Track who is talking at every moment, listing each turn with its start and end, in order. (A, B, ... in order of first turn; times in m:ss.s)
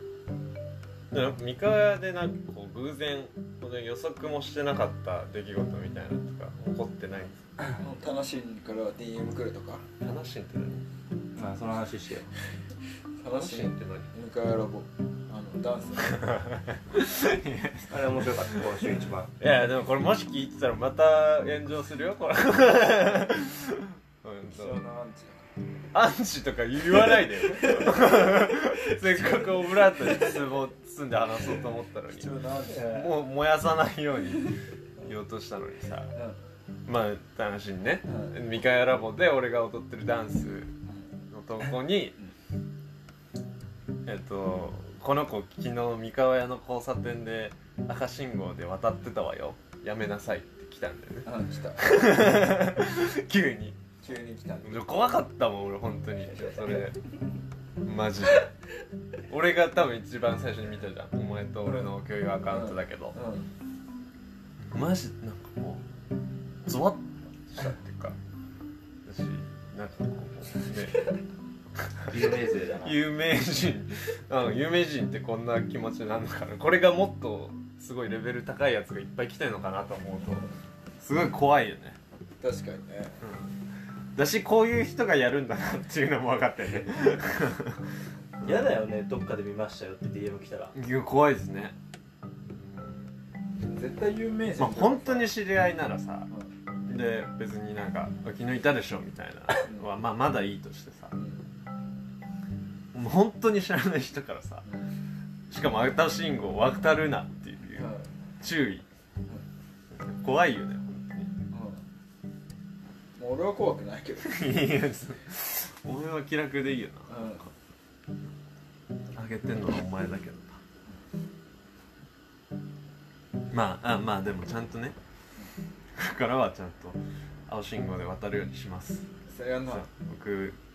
0:01.1-0:07.4 A
0:07.8-0:09.9 B
0:10.0-0:10.8 A
0:11.4-0:12.3 C
0:13.2-0:16.2 B
0:13.3-0:14.1 A
0:16.1-0:18.6 A
0:17.9-0:19.3 C
0:19.4-0:24.8 A
0:24.5-0:25.5 B
0:25.9-0:36.1 A
0:27.0-0:30.5 B
0:32.1-0:33.1 B
0:32.7-0:33.1 C
0:36.9-0:40.7 A
0:38.1-0:38.3 B
0:41.3-0:42.2 A
0:44.1-0:53.8 A
0:51.3-0:52.3 B
0:54.0-0:54.7 B
0:54.6-0:57.0 A
0:57.8-0:58.5 A
0:59.3-1:03.2 A
1:01.6-1:01.9 B
1:02.5-1:03.5 B
1:04.6-1:05.8 A
1:06.7-1:08.2 A
1:09.0-1:11.1 A
1:12.0-1:22.0 A
1:12.1-1:13.0 C
1:22.4-1:23.2 B
1:23.2-1:23.5 A
1:24.2-1:27.8 A
1:28.4-1:28.7 A
1:28.4-1:30.7 C
1:30.8-1:31.8 A
1:32.4-1:33.1 A
1:33.6-1:35.3 B
1:34.6-1:36.3 A
1:36.9-1:41.2 A
1:41.2-1:41.4 B
1:42.9-1:44.7 A
1:45.5-1:48.9 A
1:47.8-1:48.1 B
1:49.9-1:51.3 A
1:51.5-1:51.8 B
1:53.2-1:54.4 B
1:54.2-1:57.5 A
1:57.1-1:57.5 B
1:59.2-2:00.6 A
2:03.5-2:05.0 A
2:05.9-2:09.0 A
2:09.3-2:09.9 B
2:09.7-2:10.6 A